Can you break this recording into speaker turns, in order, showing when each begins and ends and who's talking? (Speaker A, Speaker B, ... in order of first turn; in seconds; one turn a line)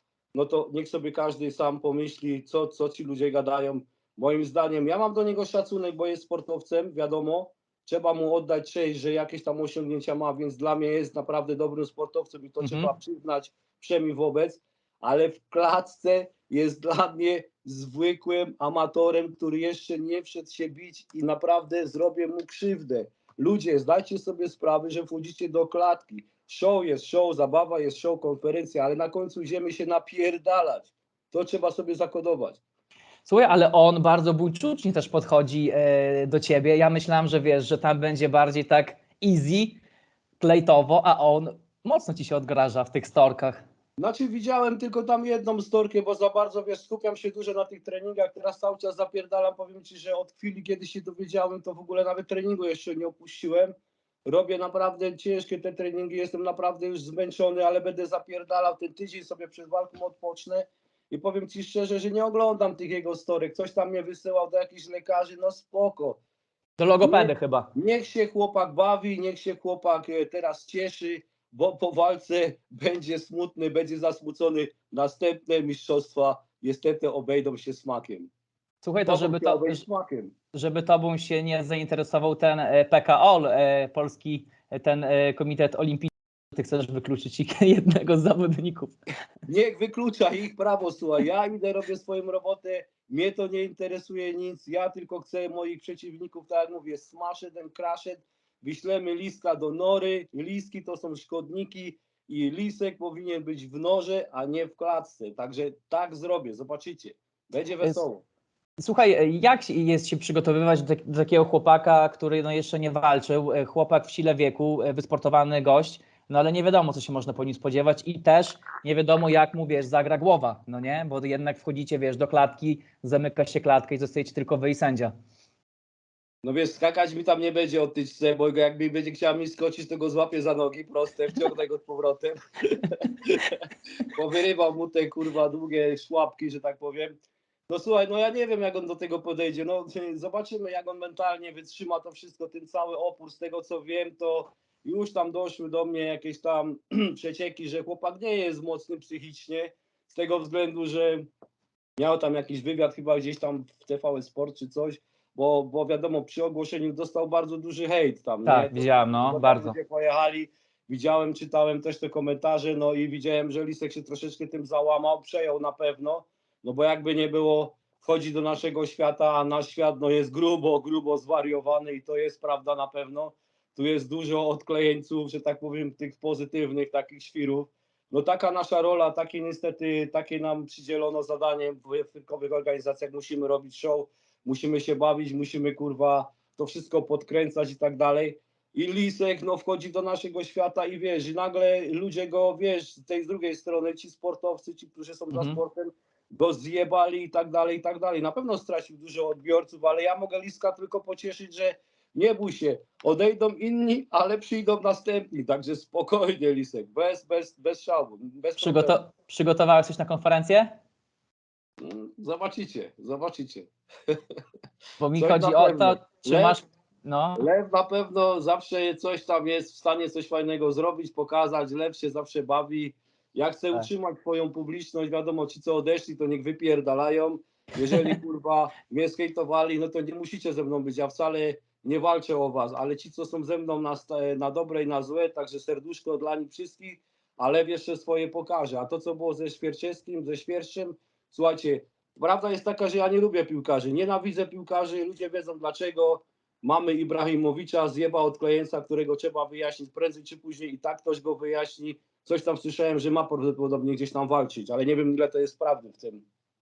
Speaker A: 0.3-32.6
Speaker B: 12.6-12.9
Speaker B: 33.2-39.8
Speaker B: 40.4-43.6
Speaker A: 44.0-53.7
Speaker A: 54.2-66.2
Speaker B: 66.8-67.7
Speaker A: 67.0-78.3
Speaker B: 78.8-79.8
Speaker A: 79.1-80.3
Speaker B: 80.5-89.0
Speaker A: 89.5-108.2
Speaker B: 108.8-125.1
Speaker A: 126.4-137.1
Speaker A: 137.7-151.3
Speaker A: 152.0-209.0
Speaker B: 158.4-159.8
Speaker B: 195.3-195.6
Speaker B: 208.6-210.8
Speaker A: 211.8-214.3
Speaker B: 215.0-217.5
Speaker A: 215.2-216.6
Speaker A: 217.4-256.2
Speaker B: 227.9-228.2